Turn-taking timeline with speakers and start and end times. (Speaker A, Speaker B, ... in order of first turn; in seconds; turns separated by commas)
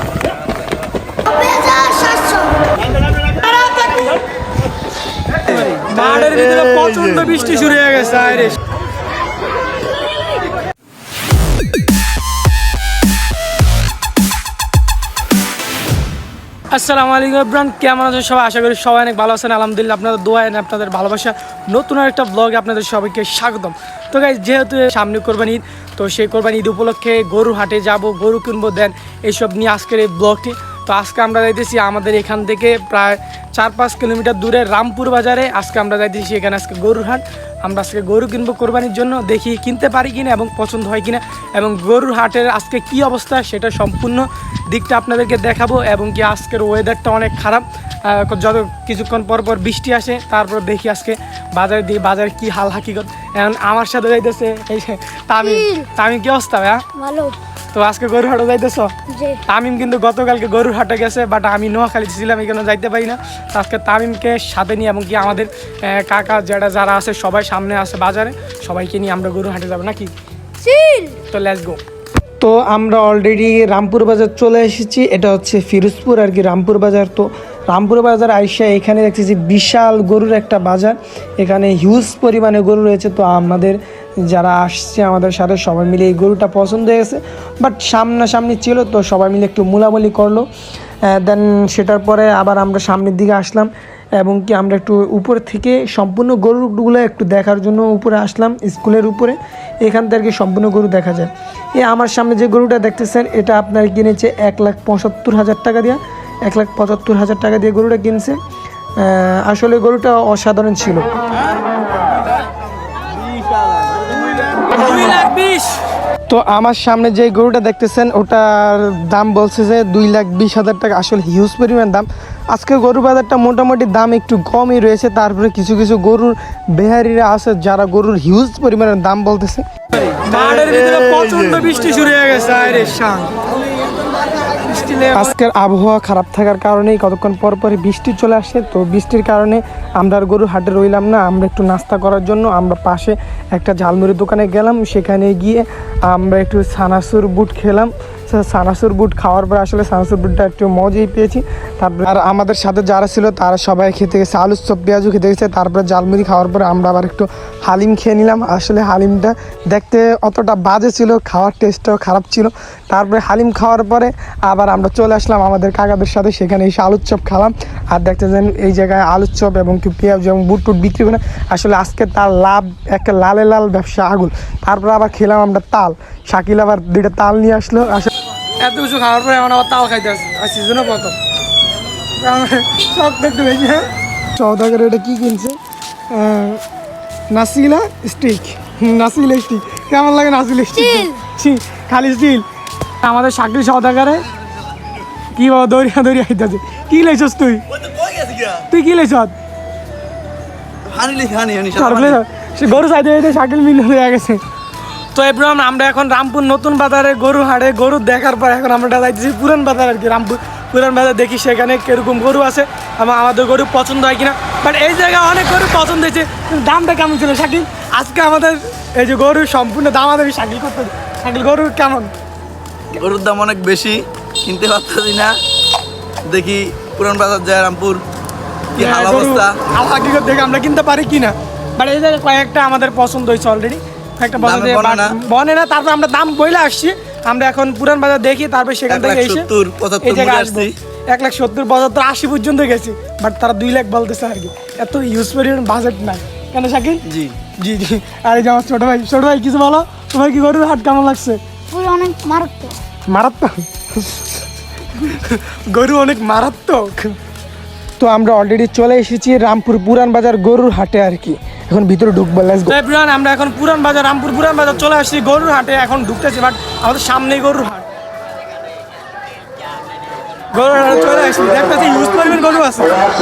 Speaker A: 1.3-2.6, Speaker A: 3.4-4.1, Speaker B: 3.5-4.0, Speaker B: 5.5-8.6, Speaker B: 16.7-56.9, Speaker A: 55.4-55.8, Speaker A: 56.9-57.4, Speaker B: 57.7-58.9, Speaker A: 59.1-59.4, Speaker B: 59.5-70.1, Speaker A: 70.6-71.2, Speaker B: 71.2-71.8, Speaker B: 72.4-90.5, Speaker B: 91.0-108.4, Speaker B: 109.0-111.1, Speaker C: 113.1-114.3, Speaker B: 114.7-133.3, Speaker B: 134.6-181.2, Speaker B: 182.2-185.6, Speaker B: 186.1-186.6, Speaker B: 187.3-192.4, Speaker A: 190.7-191.2, Speaker B: 193.0-194.2, Speaker B: 195.3-197.6, Speaker C: 197.7-198.6, Speaker B: 198.7-199.3, Speaker C: 200.8-202.2, Speaker B: 201.7-204.4, Speaker B: 205.1-222.1, Speaker C: 222.9-225.4, Speaker C: 226.2-228.0, Speaker C: 228.7-229.6, Speaker B: 228.7-239.5, Speaker C: 234.4-235.1, Speaker C: 238.9-240.7, Speaker B: 240.0-247.0, Speaker C: 247.1-247.4, Speaker B: 247.6-251.4, Speaker A: 251.7-252.8, Speaker B: 253.1-254.2, Speaker B: 254.9-257.1, Speaker B: 258.0-267.9, Speaker B: 270.5-272.9